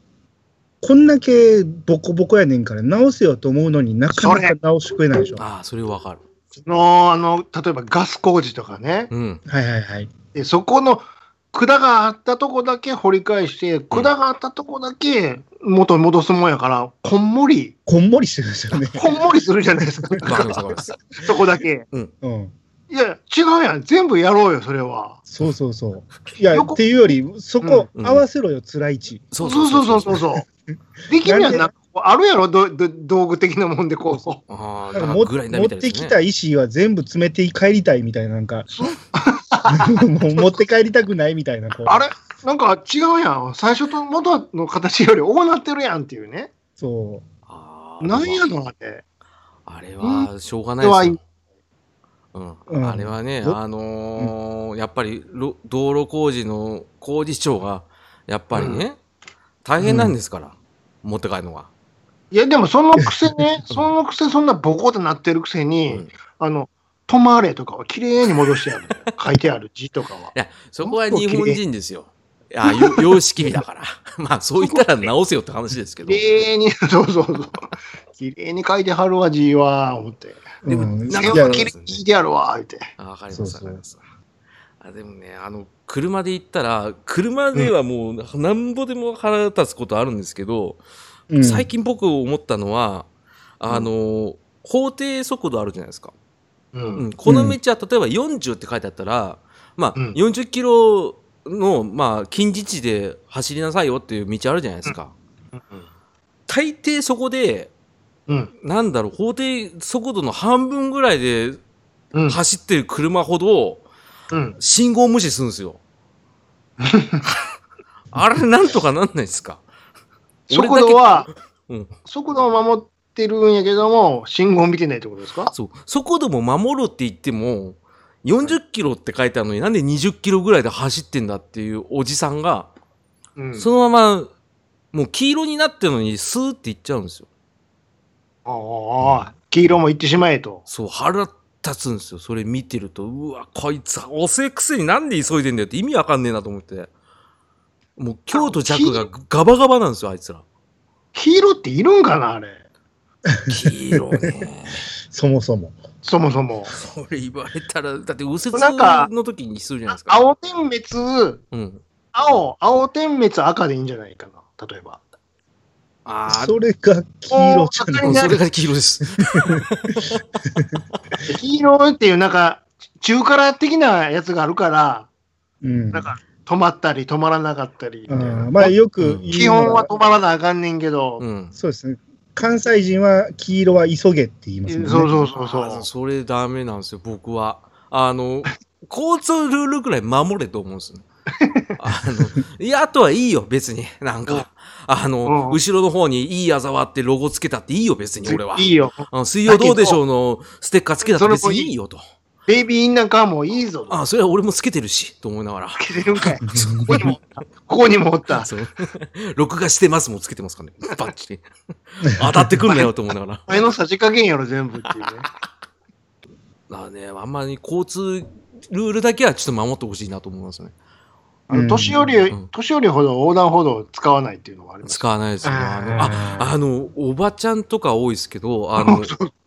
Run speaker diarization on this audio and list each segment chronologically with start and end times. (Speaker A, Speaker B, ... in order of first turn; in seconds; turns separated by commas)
Speaker A: 0.8-5.4, Speaker B: 4.1-4.5, Speaker C: 5.4-6.2, Speaker B: 6.6-9.1, Speaker C: 9.1-9.4, Speaker A: 9.5-10.1, Speaker B: 10.3-17.8, Speaker A: 17.9-19.0, Speaker B: 18.8-21.8, Speaker C: 20.2-21.3, Speaker A: 22.2-22.5, Speaker B: 22.9-25.2, Speaker A: 25.3-29.2, Speaker B: 26.5-26.8, Speaker B: 27.6-27.9, Speaker C: 27.9-28.2, Speaker C: 29.3-30.2, Speaker B: 29.4-30.5, Speaker B: 31.1-34.4, Speaker A: 31.2-31.7, Speaker C: 34.5-36.2, Speaker A: 34.9-38.7, Speaker B: 38.7-40.5, Speaker A: 39.7-42.0, Speaker B: 41.9-46.5, Speaker A: 46.8-47.2, Speaker C: 47.5-48.4, Speaker B: 48.0-49.0, Speaker C: 49.7-51.2, Speaker B: 50.0-50.3, Speaker B: 50.8-51.2, Speaker C: 52.3-59.0, Speaker A: 52.7-53.6, Speaker B: 58.5-58.8, Speaker C: 59.6-61.7, Speaker A: 59.8-60.1, Speaker B: 62.3-71.6, Speaker C: 70.3-76.3, Speaker B: 72.6-73.0, Speaker B: 74.6-75.0, Speaker B: 76.0-77.5, Speaker B: 78.1-82.9, Speaker A: 80.6-81.7, Speaker C: 80.7-82.0, Speaker C: 83.0-84.0, Speaker A: 83.3-83.8, Speaker C: 84.8-90.8, Speaker A: 91.3-91.7, Speaker C: 91.4-93.1, Speaker C: 93.6-96.1, Speaker B: 96.7-97.1, Speaker C: 97.0-105.1, Speaker A: 97.2-97.6, Speaker B: 105.5-105.9, Speaker C: 106.5-107.7, Speaker C: 108.6-111.6, Speaker C: 112.3-113.8, Speaker B: 114.3-114.6, Speaker C: 114.6-115.8, Speaker B: 116.8-117.2, Speaker C: 118.1-119.6, Speaker B: 120.5-121.3, Speaker C: 120.5-121.9, Speaker B: 122.0-125.5, Speaker C: 125.5-132.7, Speaker B: 133.3-133.7, Speaker C: 133.6-134.3, Speaker C: 134.9-137.3, Speaker B: 138.4-140.6, Speaker C: 140.7-146.9, Speaker C: 148.0-150.4, Speaker B: 148.3-149.1, Speaker B: 151.1-152.6, Speaker C: 153.5-154.9, Speaker A: 155.1-155.8, Speaker B: 156.0-156.8, Speaker C: 156.7-160.2, Speaker B: 158.5-159.1, Speaker B: 159.9-161.4, Speaker C: 161.5-161.8, Speaker B: 162.1-165.0, Speaker C: 166.1-166.6, Speaker A: 166.3-168.4, Speaker B: 167.3-168.4, Speaker C: 168.0-171.0, Speaker B: 171.2-175.1, Speaker A: 175.6-176.1, Speaker B: 175.9-178.7, Speaker A: 178.1-179.9, Speaker C: 179.0-179.5, Speaker B: 179.3-181.2, Speaker C: 181.2-181.5, Speaker A: 181.5-185.1, Speaker B: 184.7-185.8, Speaker C: 185.4-191.0, Speaker B: 191.3-191.7, Speaker C: 191.8-202.0, Speaker B: 195.2-195.6, Speaker B: 198.2-200.0, Speaker B: 201.0-201.7, Speaker B: 202.5-204.0, Speaker C: 203.9-207.1, Speaker B: 205.8-208.5, Speaker A: 206.5-207.0, Speaker C: 208.3-213.6, Speaker A: 212.2-212.4, Speaker B: 213.5-215.3, Speaker C: 216.7-220.7, Speaker B: 221.5-225.0, Speaker A: 221.5-222.1, Speaker C: 224.8-229.1, Speaker A: 225.4-226.5, Speaker B: 228.8-229.3